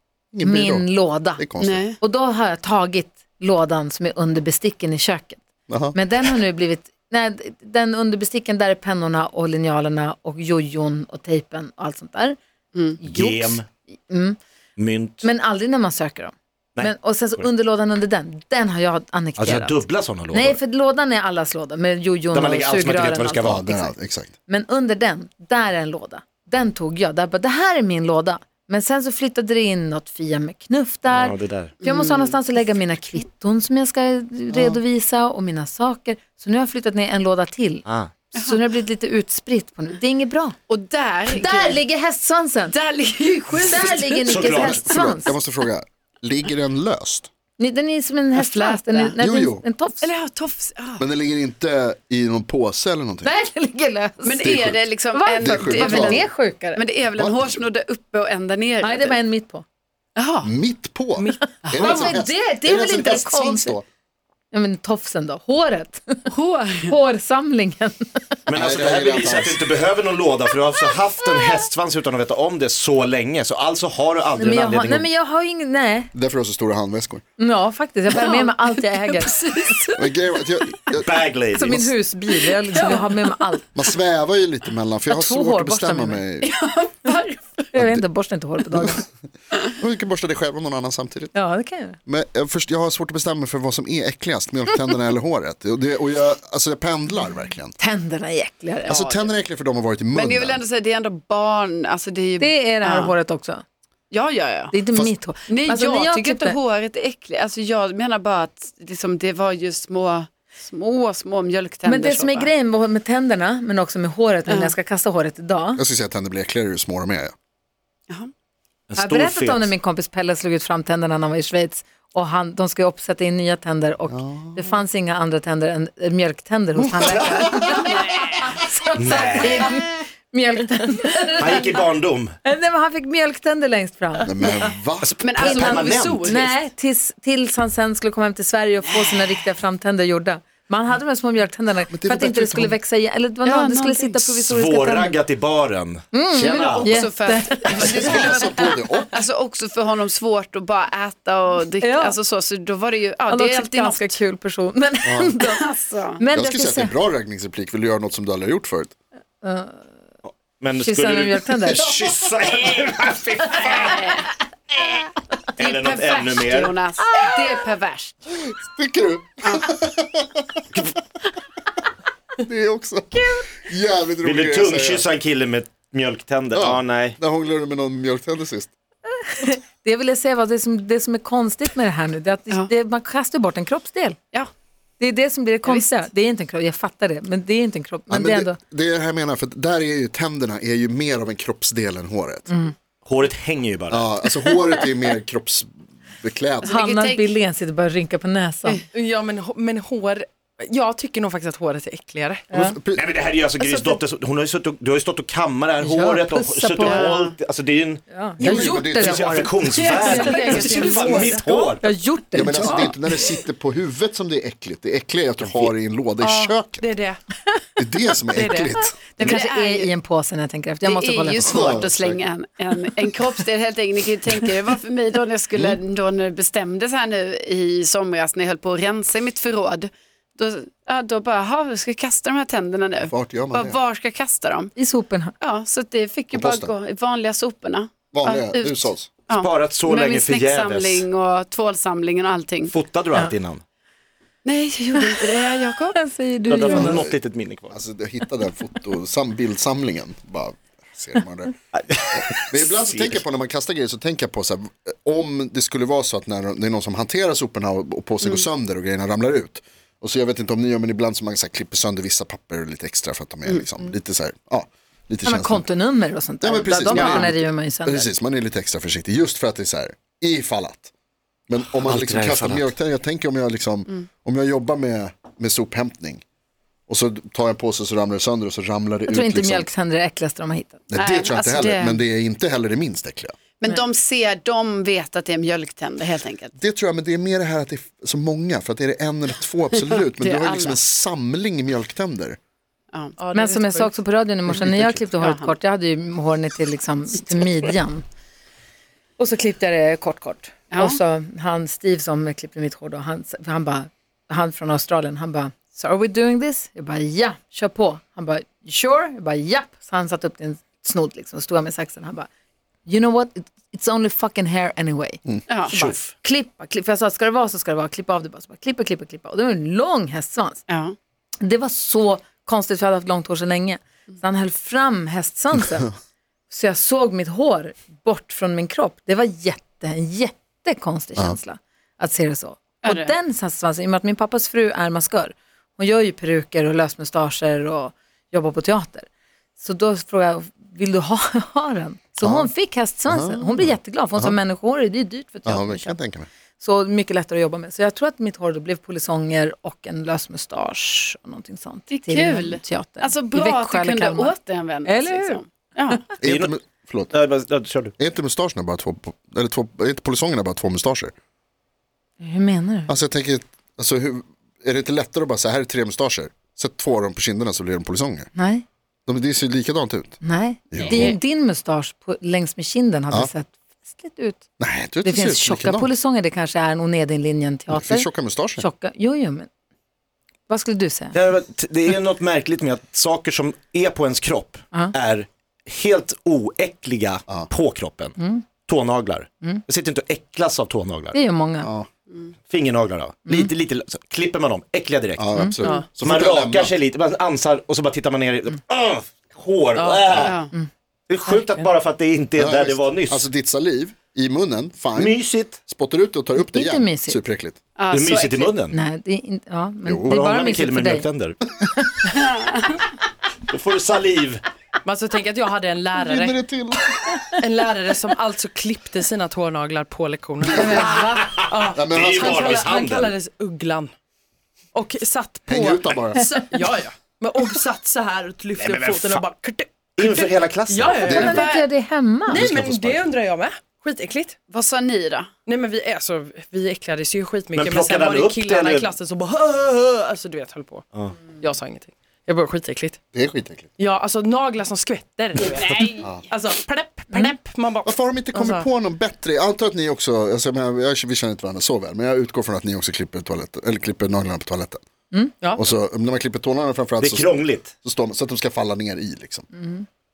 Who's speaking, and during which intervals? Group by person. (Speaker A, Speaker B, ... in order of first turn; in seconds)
Speaker A: 0.3-1.9, 5.7-6.0, 23.4-24.3, 44.4-47.3, 49.2-49.6, 51.0-53.3, 54.4-54.8, 55.4-56.2, 57.1-57.6, 60.4-63.8, 68.5-69.6, 76.1-77.2, 80.0-81.9, 83.7-86.5, 87.7-88.0, 89.7-91.3, 92.0-97.7, 98.9-100.6, 115.8-117.3, 124.1-124.7, 134.2-135.2, 141.9-142.8, 147.8-149.2, 155.0-155.3, 156.3-158.9, 168.4-170.6, 172.4-175.0, 176.5-178.7, 188.1-192.5, 193.9-196.8, 202.5-203.1, 208.4-209.5, 212.3-216.8, 217.8-218.9, 221.4-222.2, 233.1-233.8, 236.3-236.7, 238.1-239.1, 246.7-247.2, 247.7-251.5, 252.2-265.7, 266.4-270.9, 271.5-276.2, 276.9-279.7, 280.9-283.4, 286.6-292.4, 342.2-342.5, 343.1-344.4, 345.4-346.3, 356.2-357.1, 358.0-361.1, 362.9-368.3, 369.1-370.2, 370.7-371.1, 374.6-375.9, 377.7-378.6, 391.6-391.9, 395.2-396.7, 402.4-407.6, 409.8-410.2, 416.0-417.2, 421.7-422.7, 425.5-426.4, 431.0-431.5, 432.3-433.1, 443.1-443.7, 447.8-454.8, 455.6-459.4
Speaker B: 0.4-1.5, 2.0-5.4, 5.9-12.4, 13.0-14.4, 15.2-40.5, 41.3-42.8, 43.4-45.4, 47.6-50.0, 53.2-54.5, 55.1-56.8, 58.8-59.6, 61.8-63.8, 64.5-66.3, 66.9-68.2, 74.4-76.1, 77.4-80.0, 81.5-83.6, 85.1-86.2, 87.7-89.0, 91.3-92.0, 97.8-98.9, 102.4-103.6, 104.7-106.6, 111.8-115.8, 119.0-131.8, 132.4-134.3, 135.4-145.2, 146.1-148.7, 151.8-152.2, 153.3-155.7, 156.2-156.9, 159.4-159.8, 160.8-161.9, 167.2-167.6, 179.2-184.2, 185.0-188.6, 196.6-198.8, 205.8-207.2, 208.1-213.3, 219.2-221.8, 234.8-235.3, 244.9-245.2, 245.9-247.1, 265.2-268.1, 279.1-280.8, 293.3-298.0, 299.2-312.3, 312.9-320.6, 321.4-325.9, 326.5-339.1, 339.6-346.0, 346.6-355.4, 362.2-362.9, 368.3-368.6, 370.2-374.4, 375.0-379.5, 380.5-381.1, 388.2-388.4, 391.1-391.7, 395.3-395.6, 406.4-407.2, 408.7-411.1, 411.6-412.1, 420.5-421.3, 431.1-432.4, 459.5-459.9
Speaker C: 1.6-2.0, 31.8-32.4, 40.7-41.8, 42.7-44.4, 48.3-49.1, 50.0-51.0, 54.2-59.2, 60.1-60.5, 61.6-62.1, 66.3-66.9, 78.2-78.5, 86.4-87.5, 98.8-99.3, 100.1-103.1, 104.1-104.7, 105.5-112.5, 114.5-114.7, 135.2-136.4, 138.9-139.2, 143.4-144.2, 146.4-148.5, 149.1-154.2, 155.4-156.2, 163.6-164.3, 165.6-168.2, 185.7-185.9, 196.6-197.3, 206.8-207.3, 209.9-210.7, 219.2-219.9, 220.8-234.7, 235.4-242.7, 244.4-246.0, 266.9-267.2, 281.0-282.0, 283.6-286.5, 289.8-290.8, 295.2-295.5, 300.7-301.0, 320.7-320.9, 332.8-333.1, 351.9-356.0, 370.8-371.1, 400.1-400.5, 407.8-408.6, 412.1-412.6, 431.3-431.6, 434.5-435.3
Speaker D: 13.1-13.7, 14.8-15.2, 16.8-17.4, 19.4-20.6, 22.3-23.6, 31.1-31.7, 37.9-38.1, 44.3-44.8, 68.5-75.1, 81.0-81.9, 118.9-119.7, 127.0-127.4, 128.9-129.8, 131.4-132.3, 135.0-136.4, 144.4-147.0, 147.7-148.1, 160.6-164.2, 165.6-166.8, 174.2-177.2, 193.0-194.0, 202.9-208.0, 208.5-211.8, 215.4-215.7, 239.3-241.1, 242.7-243.6, 246.5-247.8, 251.7-253.2, 271.7-272.7, 315.7-316.1, 356.2-356.5, 357.1-357.9, 381.1-388.1, 388.7-391.2, 392.5-395.5, 396.0-400.4, 401.1-403.3, 404.9-405.6, 407.9-408.8, 410.0-411.4, 413.5-414.4, 421.8-423.1, 428.6-429.2, 430.0-431.4, 437.5-438.9, 457.0-457.7
Speaker E: 198.9-202.4, 208.4-208.7, 209.8-211.8, 216.2-217.2, 218.3-218.7, 293.2-293.9, 395.6-395.9, 399.7-400.1, 414.8-416.4, 417.4-423.9, 424.7-431.3, 432.3-434.4, 435.4-440.8, 441.4-443.0, 443.8-448.7, 455.4-455.7